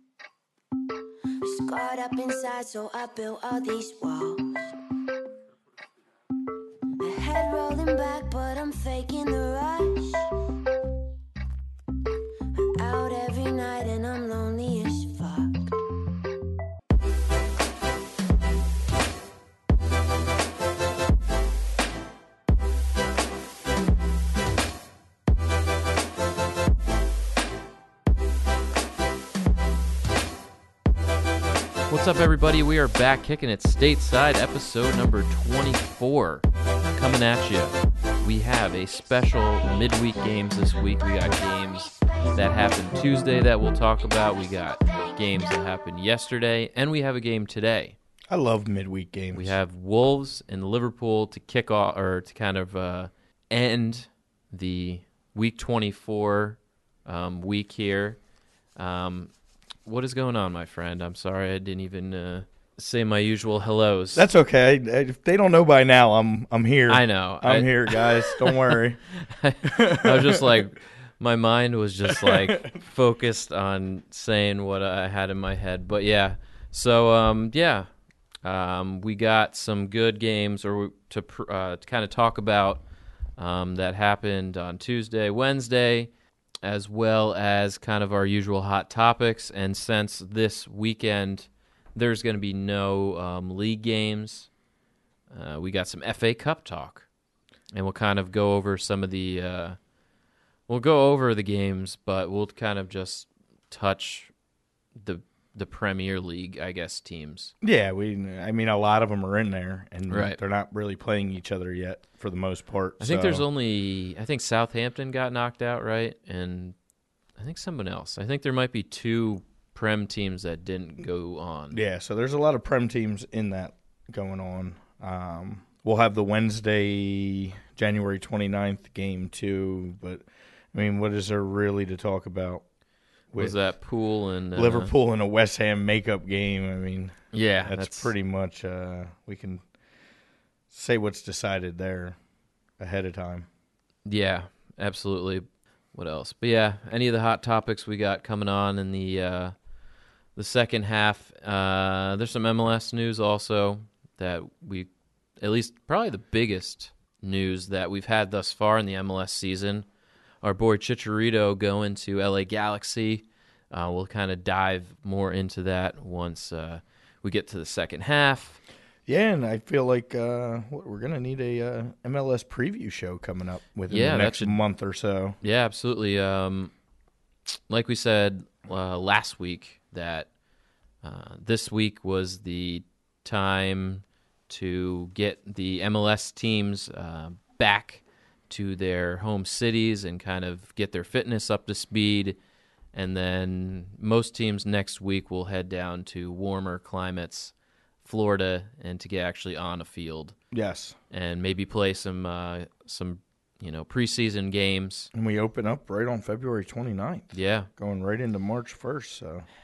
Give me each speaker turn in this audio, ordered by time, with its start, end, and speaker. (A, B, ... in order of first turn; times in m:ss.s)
0:01.4-0:04.7 A
0:07.0-0:10.3 A
0:12.5-0:15.8 A
0:31.9-0:48.0 B
0:48.3-0:49.5 C
0:49.3-0:58.2 B
0:58.8-0:59.3 B
0:59.8-1:04.3 B
1:04.1-1:09.0 C
1:06.9-1:17.9 B
1:09.6-1:10.6 C
1:12.0-1:12.8 C
1:18.4-1:22.8 B
1:23.4-1:26.1 B
1:26.6-1:34.5 B
1:35.3-1:37.0 B
1:37.7-1:39.8 B
1:40.7-1:44.3 B
1:45.0-1:47.5 B
1:47.6-1:53.4 C
1:50.1-1:50.4 B
1:53.0-1:56.8 B
1:57.4-2:01.8 B
2:01.7-2:12.6 C
2:13.3-2:13.6 C
2:13.4-2:14.9 B
2:14.5-2:19.6 C
2:17.3-2:18.1 B
2:20.7-2:22.2 C
2:22.8-2:23.5 C
2:24.0-2:29.5 B
2:30.4-2:34.9 B
2:35.4-2:39.9 B
2:40.4-2:48.6 B
2:49.1-2:55.4 C
2:53.9-2:54.6 B
2:55.4-2:56.7 B
2:57.6-3:00.3 B
3:01.0-3:12.4 B
3:12.9-3:20.4 B
3:20.5-3:21.0 C
3:21.1-3:25.1 B
3:25.1-3:29.4 C
3:27.3-3:27.7 B